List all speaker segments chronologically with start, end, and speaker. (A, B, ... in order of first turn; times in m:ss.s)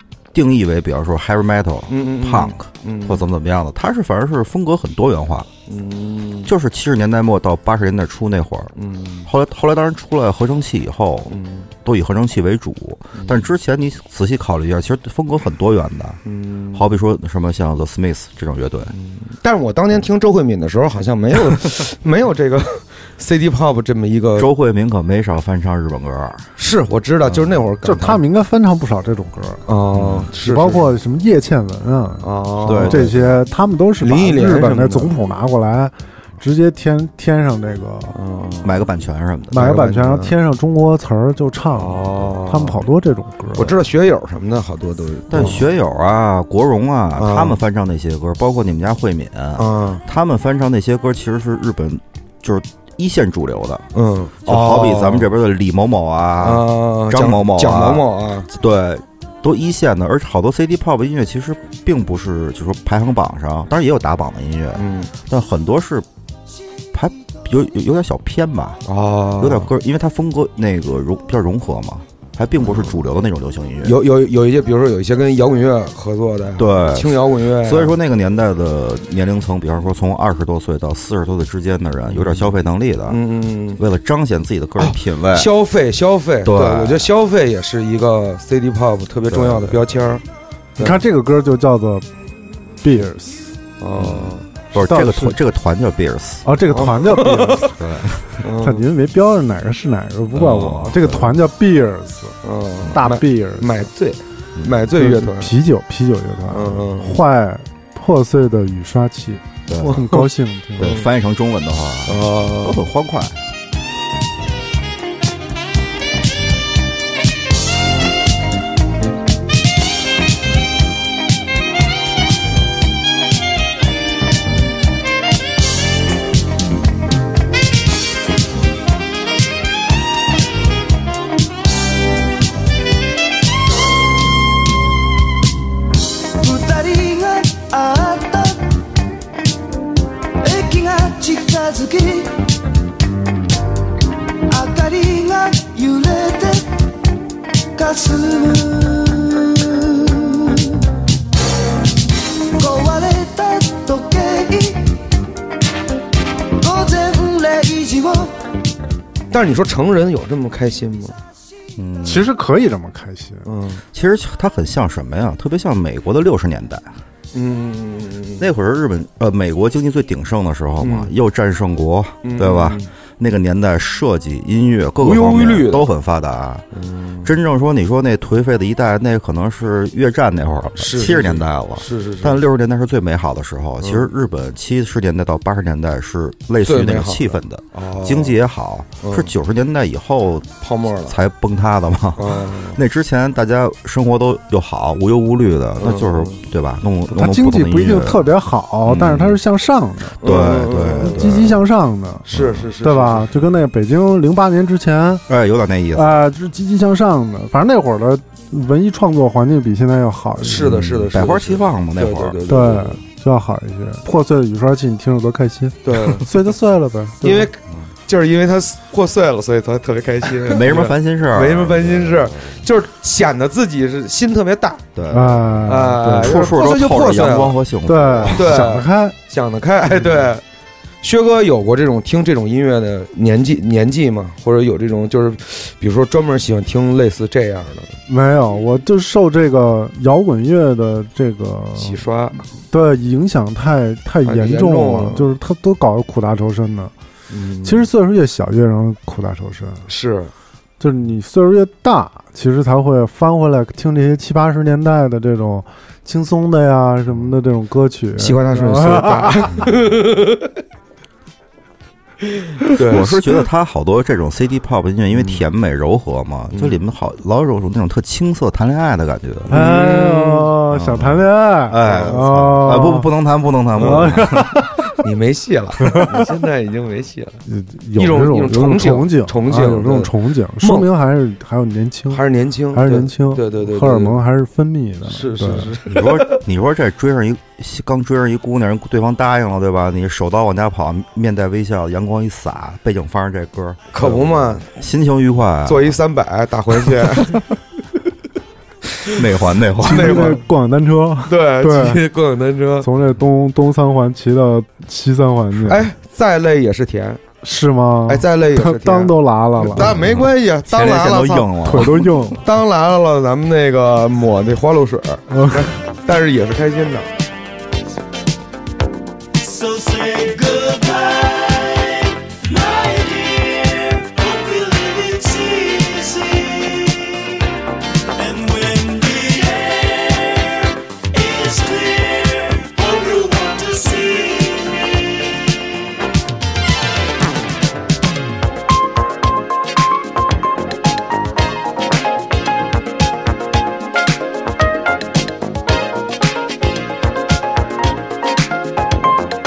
0:00.3-0:05.5 A
0:01.9-0:03.2 B
0:05.7-0:06.5 B
0:06.4-0:08.7 A
0:08.8-0:09.3 B
0:09.2-0:16.2 A
0:11.3-0:11.7 B
0:13.2-0:13.4 B
0:16.3-0:16.9 B
0:16.7-0:18.9 A
0:18.9-0:24.5 B
0:24.4-0:26.5 A
0:26.6-0:28.2 B
0:27.3-0:27.6 A
0:27.8-0:29.6 C
0:29.7-0:30.9 B
0:29.9-0:30.3 A
0:30.4-0:38.2 C
0:32.2-0:33.2 B
0:32.6-0:33.4 A
0:34.0-0:35.1 B
0:38.1-0:38.8 B
0:38.6-0:39.9 A
0:39.5-0:43.8 C
0:39.5-0:40.3 B
0:41.7-0:42.8 B
0:43.6-0:45.7 B
0:45.3-0:53.9 A
0:47.2-0:47.6 B
0:49.6-0:50.0 B
0:54.0-0:55.3 B
0:54.4-1:06.1 A
0:56.4-0:58.5 B
1:04.8-1:05.1 B
1:06.9-1:08.8 A
1:08.9-1:09.7 B
1:09.4-1:14.0 A
1:12.6-1:13.0 B
1:13.8-1:18.0 B
1:16.6-1:23.2 A
1:22.2-1:22.5 B
1:23.1-1:23.8 B
1:23.8-1:25.5 A
1:24.8-1:30.2 B
1:26.4-1:27.1 A
1:29.3-1:30.0 A
1:30.8-1:32.1 C
1:32.8-1:33.5 C
1:33.8-1:34.5 B
1:34.0-1:36.5 A
1:34.7-1:35.4 C
1:36.4-1:37.8 C
1:36.7-1:37.7 B
1:37.7-1:38.4 A
1:38.4-1:38.8 B
1:38.6-1:42.4 C
1:40.3-1:41.4 A
1:42.4-1:45.5 B
1:42.9-1:43.9 C
1:44.6-1:44.8 A
1:45.0-1:51.0 C
1:46.5-1:47.2 B
1:49.7-1:50.0 A
1:50.8-1:53.4 A
1:50.8-1:51.1 B
1:52.1-1:52.8 B
2:16.4-2:18.7 D
2:20.4-2:22.4 D
2:24.5-2:26.7 D
2:27.8-2:30.7 D
2:32.6-2:35.0 D
2:36.6-2:38.3 D
2:39.3-2:41.2 B
2:41.8-2:42.3 A
2:42.0-2:43.5 C
2:43.5-2:43.8 B
2:43.9-2:46.9 A
2:47.3-2:48.5 B
2:48.4-2:56.7 A
2:50.8-2:51.1 B
2:52.2-2:52.9 B
2:55.0-2:55.9 B
2:56.8-2:57.3 B
2:57.2-3:18.3 A
3:00.8-3:02.4 B
3:03.8-3:04.1 B
3:06.6-3:08.4 B
3:09.0-3:09.3 B
3:10.6-3:11.2 B
3:12.2-3:12.8 B
3:15.8-3:16.4 B
3:17.1-3:20.2 C
3:18.8-3:19.4 A
3:20.2-3:21.5 B
3:20.2-3:21.6 A
3:21.0-3:22.3 C
3:22.3-3:23.3 B
3:22.3-3:22.7 A
3:22.8-3:25.2 C
3:25.3-3:26.2 A
3:25.9-3:30.8 C
3:30.4-3:33.0 B
3:30.6-3:32.4 A
3:32.5-3:37.5 C
3:35.8-3:36.3 B
3:37.2-3:44.9 B
3:40.4-3:42.6 A
3:45.0-3:48.7 A
3:45.1-3:46.5 C
3:45.6-3:47.6 B
3:47.9-3:49.2 C
3:48.3-3:50.4 B
3:51.0-3:57.9 B
3:58.1-4:02.0 C
4:01.8-4:02.4 B
4:02.7-4:06.9 C
4:04.2-4:05.3 B
4:07.3-4:07.9 B
4:07.6-4:09.9 C
4:09.9-4:10.3 B
4:10.8-4:19.6 C
4:18.2-4:20.5 B
4:22.6-4:23.3 B
4:22.8-4:29.6 A
4:25.1-4:25.4 B
4:29.5-4:30.5 B
4:29.5-4:33.1 C
4:30.7-4:34.8 A
4:31.8-4:32.3 B
4:33.8-4:34.8 C
4:33.8-4:34.1 B
4:35.0-4:37.4 B
4:37.5-4:45.7 C
4:38.0-4:40.9 B
4:42.1-4:44.2 B
4:45.1-4:46.4 B
4:45.9-4:56.0 A
4:53.9-4:54.7 B
4:55.6-4:57.4 B
4:59.1-5:00.4 A
4:59.8-5:02.0 C
4:59.8-5:00.4 B
5:01.3-5:02.9 B
5:02.8-5:05.9 C
5:05.6-5:07.2 B
5:07.4-5:09.9 C
5:08.1-5:17.1 B
5:09.8-5:12.3 A
5:11.6-5:12.4 C
5:15.3-5:15.7 C
5:19.6-5:22.0 E
5:22.5-5:26.7 E
5:28.2-5:30.3 E
5:31.2-5:34.8 E